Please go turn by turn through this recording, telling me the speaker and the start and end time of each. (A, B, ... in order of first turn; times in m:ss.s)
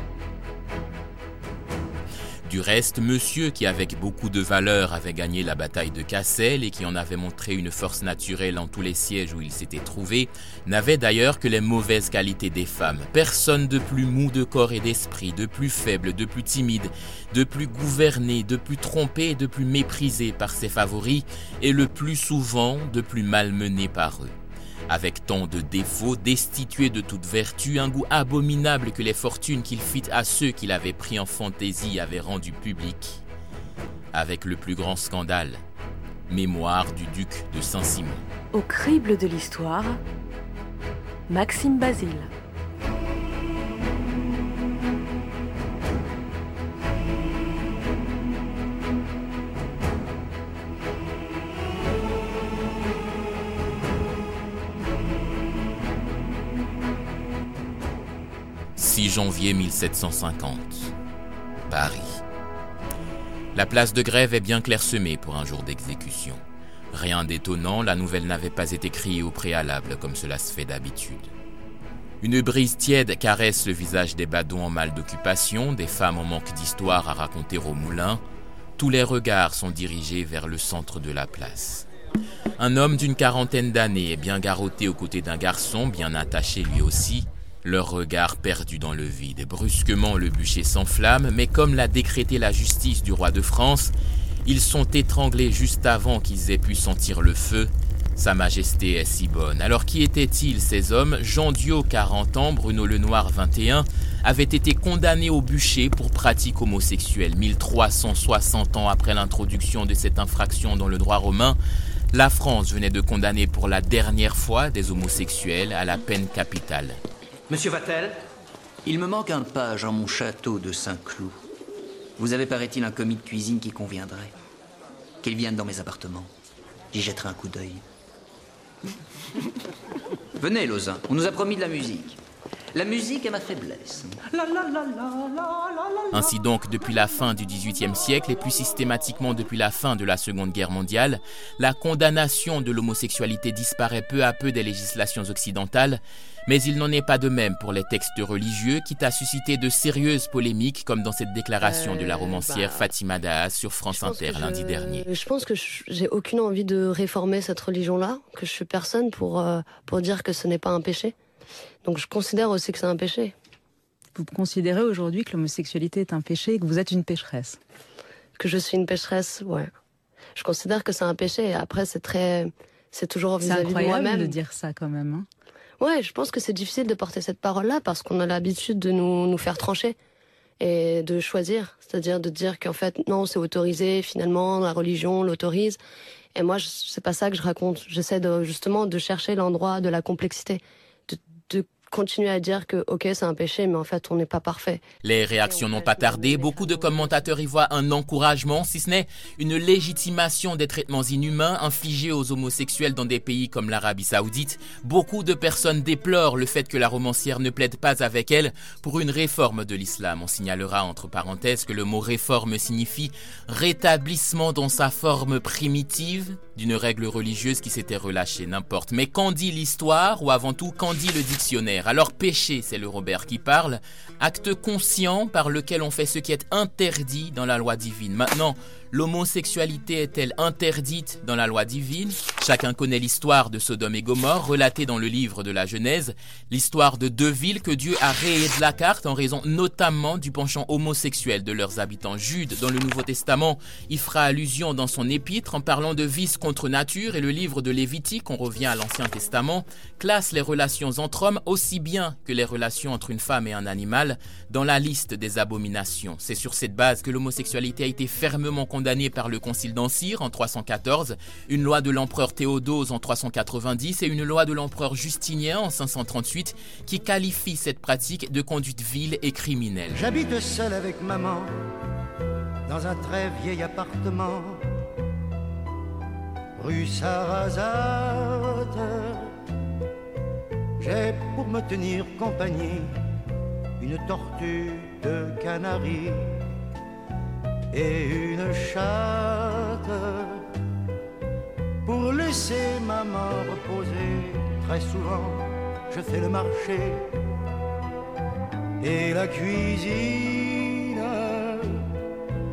0:02.4-0:24.3 A
0:24.9-0:33.2 A
0:34.1-0:35.6 A
0:36.3-0:38.2 A
0:38.5-0:40.0 B
0:41.3-0:42.3 B
0:58.8-1:00.9 A
1:01.7-1:02.2 A
1:03.5-1:06.4 A
1:06.9-1:11.3 A
1:12.2-1:18.2 A
1:18.8-1:21.8 A
1:22.6-1:33.9 A
1:34.4-1:51.6 A
1:52.1-1:57.0 A
1:57.5-1:58.0 C
1:58.9-2:01.3 C
2:02.2-2:04.3 C
2:05.2-2:06.3 C
2:06.9-2:07.8 C
2:10.4-2:12.2 C
2:12.8-2:14.1 C
2:16.1-2:35.1 A
2:31.6-2:32.9 D
2:33.9-2:41.1 D
2:41.8-2:43.3 D
2:44.2-2:47.6 E
2:48.4-2:49.7 D
2:50.4-2:54.4 D
2:53.4-2:55.3 E
2:55.8-3:00.0 D
3:00.6-3:05.8 D
3:06.3-3:17.3 D
3:15.0-4:30.0 A
4:29.9-4:31.5 F
4:32.7-4:34.6 F
4:36.6-4:39.3 F
4:40.8-4:42.9 F
4:43.8-4:46.2 F
4:47.7-4:50.4 F
4:51.8-4:57.0 F
4:58.8-5:01.8 F